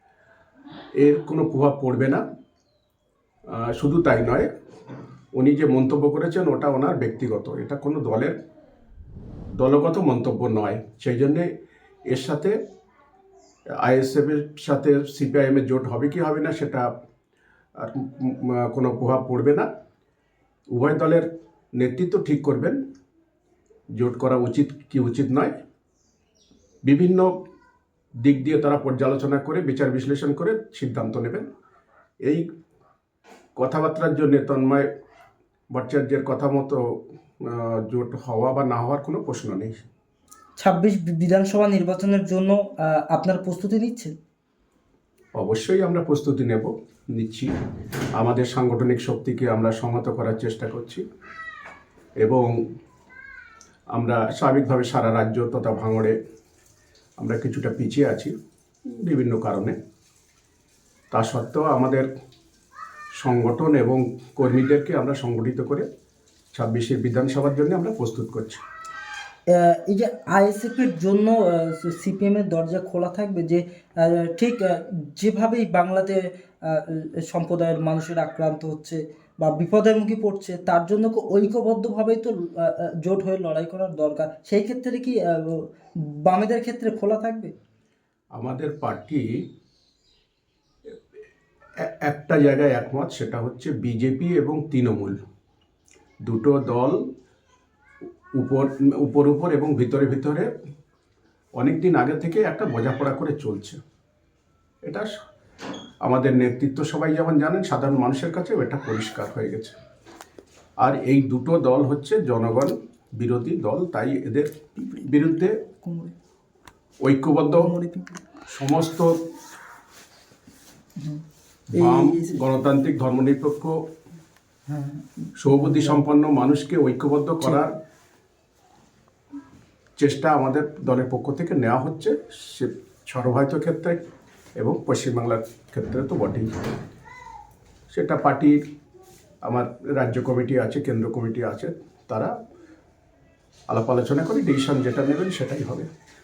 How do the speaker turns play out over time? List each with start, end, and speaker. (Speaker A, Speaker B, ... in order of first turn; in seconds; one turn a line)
Speaker A: 1.0-2.2
Speaker A: 3.5-4.5
Speaker A: 5.4-8.4
Speaker A: 9.6-11.5
Speaker A: 12.1-12.6
Speaker A: 13.8-16.9
Speaker A: 17.8-19.7
Speaker A: 20.7-22.8
Speaker A: 24.0-25.5
Speaker A: 26.9-27.3
Speaker A: 28.2-31.5
Speaker A: 33.6-34.9
Speaker A: 35.7-36.8
Speaker A: 37.4-39.8
Speaker B: 40.6-44.2
Speaker A: 45.4-47.5
Speaker A: 48.2-51.0
Speaker A: 52.2-52.6
Speaker A: 53.9-56.2
Speaker A: 57.2-58.3
Speaker A: 58.9-59.8
Speaker A: 61.1-62.1
Speaker A: 63.2-65.9
Speaker A: 66.5-68.6
Speaker B: 69.5-87.5
Speaker A: 88.4-89.3
Speaker A: 91.8-95.2
Speaker A: 96.2-97.0
Speaker A: 98.4-100.5
Speaker A: 101.6-103.8
Speaker A: 106.0-109.8
Speaker A: 110.8-115.6
Speaker B: 115.8-116.1
Speaker A: 117.0-117.7
Speaker B: 117.6-118.2
Speaker A: 118.5-119.2
Speaker A: 121.7-123.8
Speaker B: 121.7-122.4
Speaker B: 124.7-126.0
Speaker A: 125.4-127.8
Speaker A: 130.0-134.0
Speaker A: 134.6-136.5
Speaker A: 137.9-138.6
Speaker A: 139.4-142.3
Speaker A: 143.7-145.9